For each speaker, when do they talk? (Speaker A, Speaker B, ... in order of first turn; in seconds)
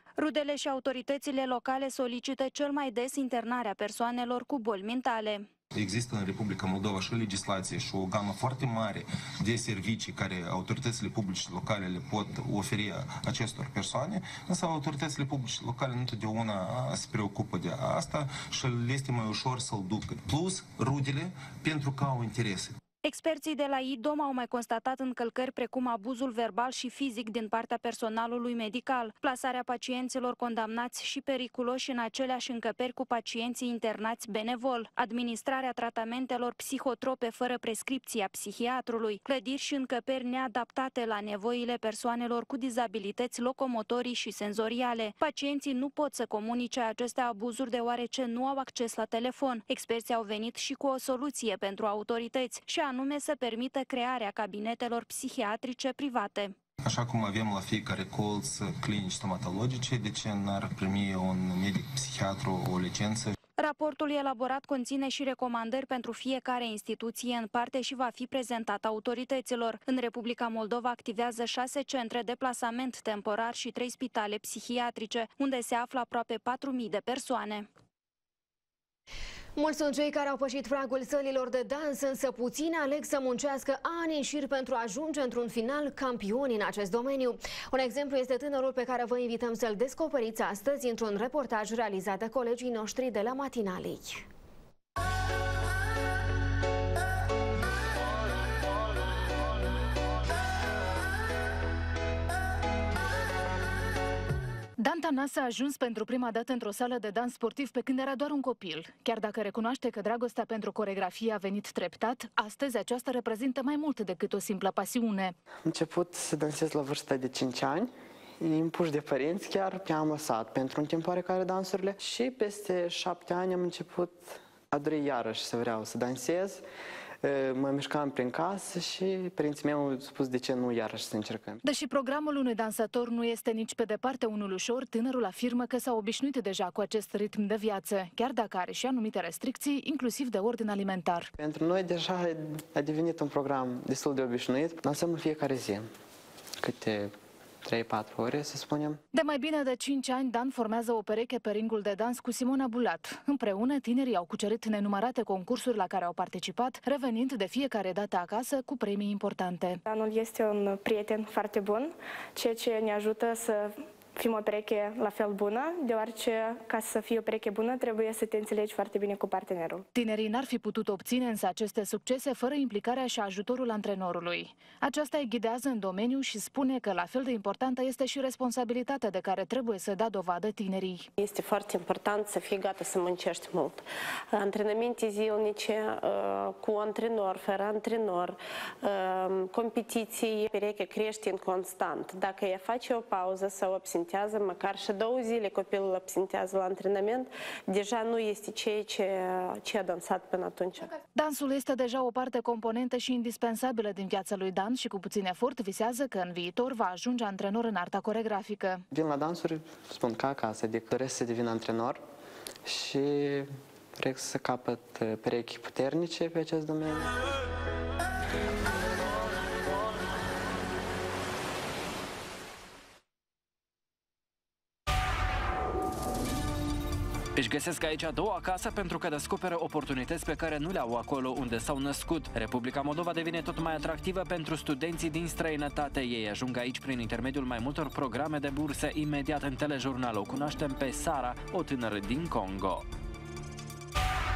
Speaker A: 0.2-5.5, 23.0-56.5, 63.6-77.7
Speaker B: 5.7-22.8, 56.8-63.4
Speaker C: 79.6-94.3
Speaker D: 104.8-115.3, 131.6-141.3, 149.1-159.8, 169.9-181.1, 201.1-208.8
Speaker E: 115.6-126.6, 127.2-131.6, 141.4-145.9, 146.6-149.0, 208.9-212.0, 212.7-217.1
Speaker F: 159.8-169.8
Speaker G: 181.2-183.8, 184.3-200.9
Speaker H: 227.4-242.8